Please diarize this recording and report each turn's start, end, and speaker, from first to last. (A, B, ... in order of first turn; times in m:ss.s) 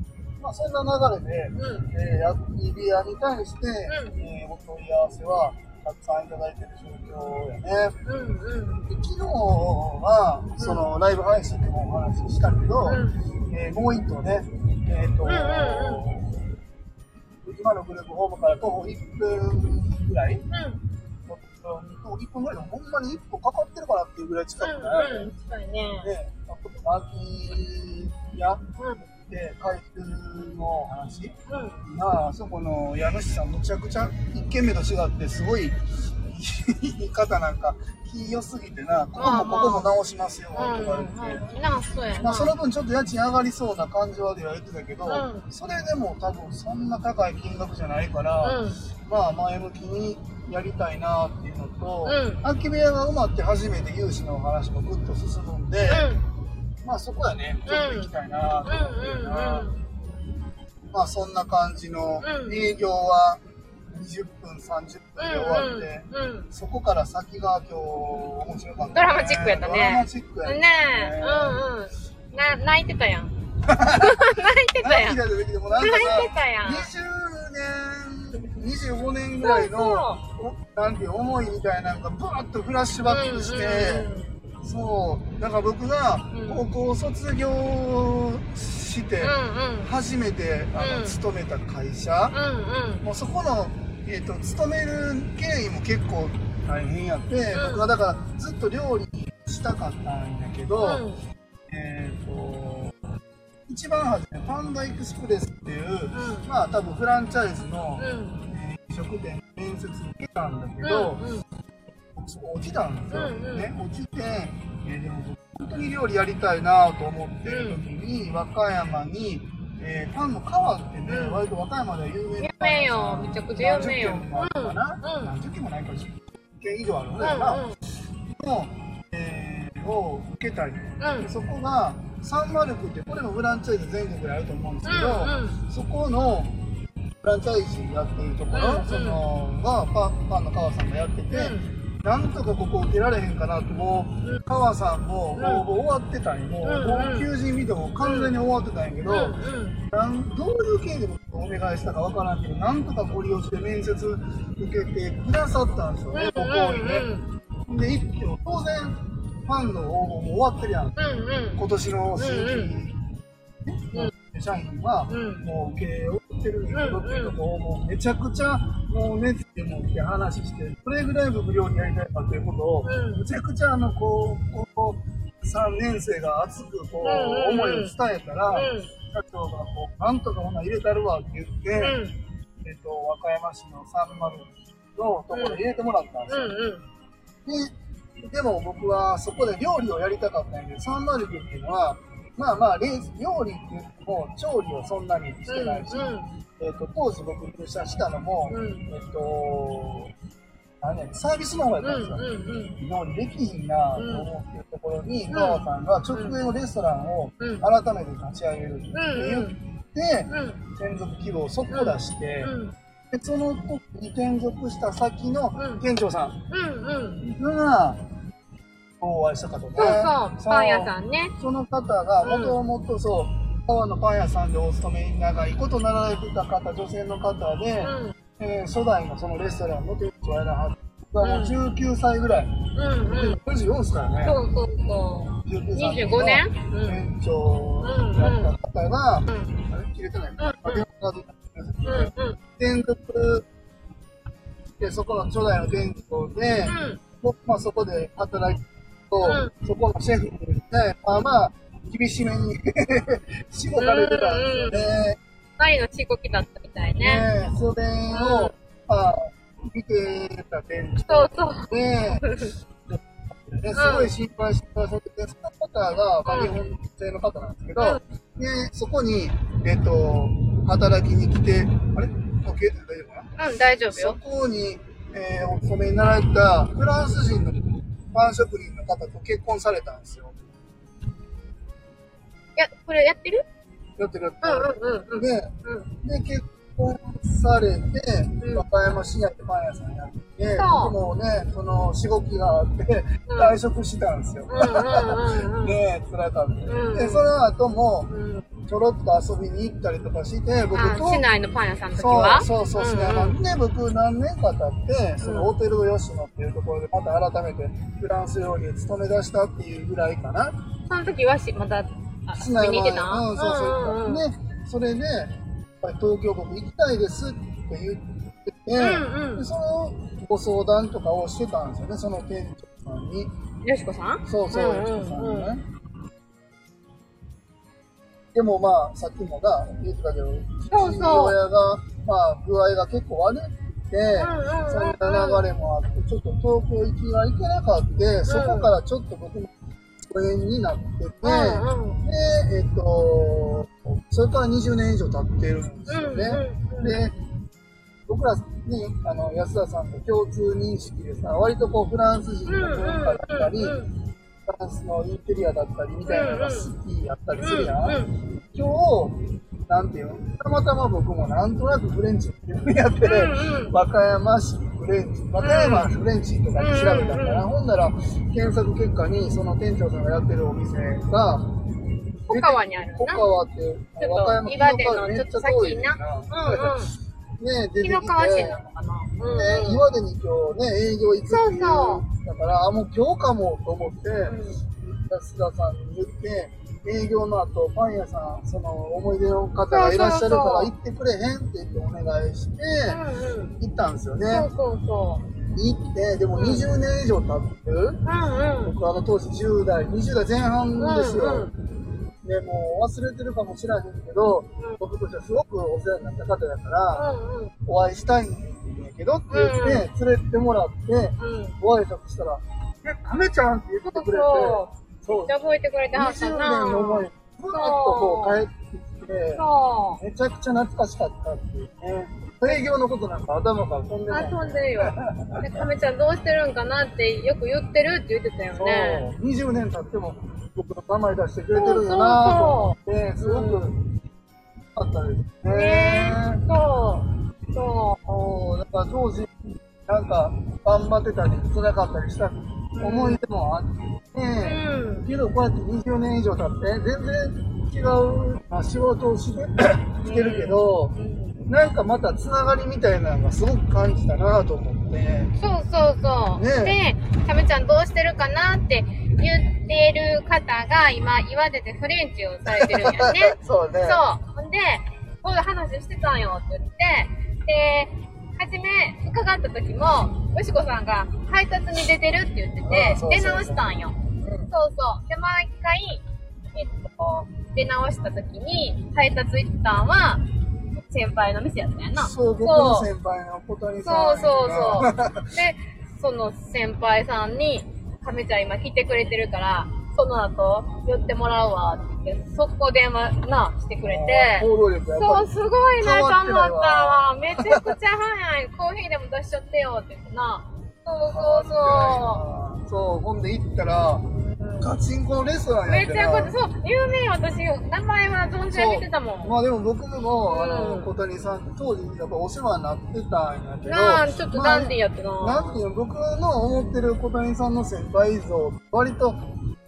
0:00.4-0:08.0 A
0:01.5-0:01.9 B
0:03.9-0:04.2 B
0:08.0-0:08.9 B
0:08.9-0:16.4 A
0:10.6-0:10.8 B
0:12.8-0:13.1 B
0:15.2-0:16.0 B
0:17.4-0:20.4 A
0:20.5-0:20.8 B
0:21.2-0:25.3 A
0:24.6-0:26.1 B
0:26.0-0:41.5 A
0:31.5-0:31.8 B
0:39.2-0:39.9 B
0:40.5-0:42.5 B
0:42.2-0:56.1 A
0:45.1-0:45.5 B
0:48.4-0:48.8 B
0:52.0-0:52.4 B
0:55.8-0:56.2 B
0:56.8-0:59.7 A
0:57.7-0:58.1 B
0:58.6-0:59.8 B
1:00.9-1:11.6 A
1:02.2-1:02.7 B
1:05.2-1:06.5 B
1:08.9-1:13.3 B
1:13.6-1:24.1 A
1:13.9-1:16.9 B
1:19.4-1:20.2 B
1:23.1-1:24.4 B
1:24.6-1:32.4 A
1:26.3-1:26.7 B
1:29.2-1:29.9 B
1:30.8-1:31.2 B
1:32.3-1:33.0 B
1:33.0-1:41.0 A
1:37.5-1:37.9 B
1:40.8-1:41.2 B
1:41.7-1:42.9 A
1:43.7-1:51.2 A
1:46.1-1:46.5 B
1:48.0-1:48.4 B
1:50.8-1:51.4 B
1:52.1-2:07.6 A
1:53.1-1:53.7 B
1:57.5-1:57.8 B
2:01.1-2:01.4 B
2:02.4-2:05.3 B
2:07.2-2:07.8 B
2:08.3-2:16.6 A
2:11.0-2:11.3 B
2:14.8-2:15.6 B
2:17.2-2:29.4 A
2:18.5-2:19.2 B
2:21.3-2:21.6 B
2:25.4-2:25.6 B
2:26.6-2:27.3 B
2:28.0-2:28.3 B
2:29.1-2:29.8 B
2:29.9-2:37.1 A
2:36.1-2:37.3 B
2:37.6-2:40.9 A
2:41.0-2:41.6 B
2:41.6-2:43.0 A
2:42.2-2:42.7 B
2:43.6-3:02.0 A
2:45.1-2:45.4 B
2:46.7-2:47.4 B
2:52.8-2:53.2 B
2:57.0-2:57.9 B
2:58.5-2:58.9 B
3:01.8-3:02.2 B
3:02.6-3:06.5 A
3:05.3-3:05.6 B
3:06.3-3:06.8 B
3:07.4-3:20.1 A
3:15.5-3:16.3 B
3:18.5-3:18.9 B
3:20.8-3:32.5 A
3:21.8-3:22.8 B
3:24.0-3:24.3 B
3:25.3-3:26.4 B
3:27.4-3:27.6 B
3:28.9-3:29.6 B
3:30.3-3:30.6 B
3:31.7-3:32.7 B
3:33.1-3:36.4 A
3:35.6-3:35.8 B
3:36.5-3:37.2 B
3:37.2-3:38.1 A
3:39.0-3:54.4 A
3:39.8-3:41.3 B
3:42.2-3:42.6 B
3:47.8-3:48.1 B
3:51.2-3:51.6 B
3:52.7-3:53.4 B
3:54.2-3:57.0 B
3:55.4-4:03.4 A
3:57.8-3:58.5 B
3:59.3-3:59.5 B
4:00.4-4:00.8 B
4:01.8-4:02.4 B
4:04.8-4:15.2 A
4:06.6-4:07.0 B
4:09.2-4:09.5 B
4:13.8-4:14.9 B
4:15.6-4:17.3 B
4:17.0-4:22.3 A
4:18.1-4:18.5 B
4:21.1-4:22.5 B
4:22.9-4:33.3 A
4:23.7-4:24.1 B
4:26.2-4:26.6 B
4:33.4-4:34.2 B
4:33.9-4:40.4 A
4:42.6-4:43.4 B
4:44.0-5:01.2 A
4:44.4-4:45.9 B
4:48.4-4:48.7 B
4:50.5-4:51.0 B
4:53.3-4:53.6 B
4:54.5-4:55.8 B
4:56.7-4:57.3 B
4:58.1-4:58.4 B
5:00.7-5:03.4 B
5:02.0-5:10.6 A
5:05.2-5:05.5 B
5:10.9-5:14.2 B
5:12.3-5:23.4 A
5:18.8-5:19.4 B
5:23.6-5:25.5 B
5:24.2-5:25.7 A
5:28.3-5:47.2 A
5:30.7-5:31.4 B
5:34.2-5:35.4 B
5:38.2-5:38.7 B
5:41.2-5:42.0 B
5:45.9-5:47.0 B
5:48.0-5:53.8 A
5:52.5-5:53.9 B
5:54.4-6:11.6 A
5:56.1-5:56.7 B
5:57.4-5:58.1 B
6:03.0-6:03.7 B
6:05.4-6:05.9 B
6:06.6-6:07.5 B
6:12.3-6:16.8 A
6:12.3-6:13.3 B
6:14.0-6:16.9 B
6:17.4-6:18.6 A
6:17.8-6:19.9 B
6:19.2-6:33.0 A
6:21.3-6:22.0 B
6:24.2-6:24.6 B
6:29.7-6:30.7 B
6:32.9-6:33.5 B
6:33.6-6:34.5 A
6:34.3-6:35.2 B
6:35.5-6:38.0 A
6:36.3-6:36.7 B
6:38.0-6:38.8 B
6:38.6-6:41.5 A
6:40.8-6:41.5 B
6:42.2-6:47.1 A
6:46.9-6:47.5 B
6:47.6-6:55.3 A
6:49.3-6:49.9 B
6:51.2-6:51.6 B
6:53.8-6:58.4 B
6:55.9-6:59.4 A
6:59.4-7:00.0 B
7:00.0-7:05.7 A
7:04.1-7:09.1 B
7:08.5-7:13.8 A
7:11.5-7:13.6 B
7:14.7-7:16.4 A
7:15.5-7:18.0 B
7:18.0-7:30.9 A
7:22.7-7:23.2 B
7:24.4-7:25.1 B
7:30.0-7:31.4 B
7:31.4-7:35.3 A
7:35.4-7:54.0 B
7:36.4-7:36.8 A
7:42.5-7:44.0 A
7:52.6-7:54.5 A
7:54.5-8:02.9 B
8:02.0-8:05.4 A
8:03.8-8:22.2 B
8:13.8-8:17.8 A
8:21.1-8:26.3 A
8:24.1-8:24.7 B
8:25.7-8:29.3 B
8:28.5-8:39.2 A
8:30.3-8:30.9 B
8:33.6-8:35.6 B
8:36.5-8:36.8 B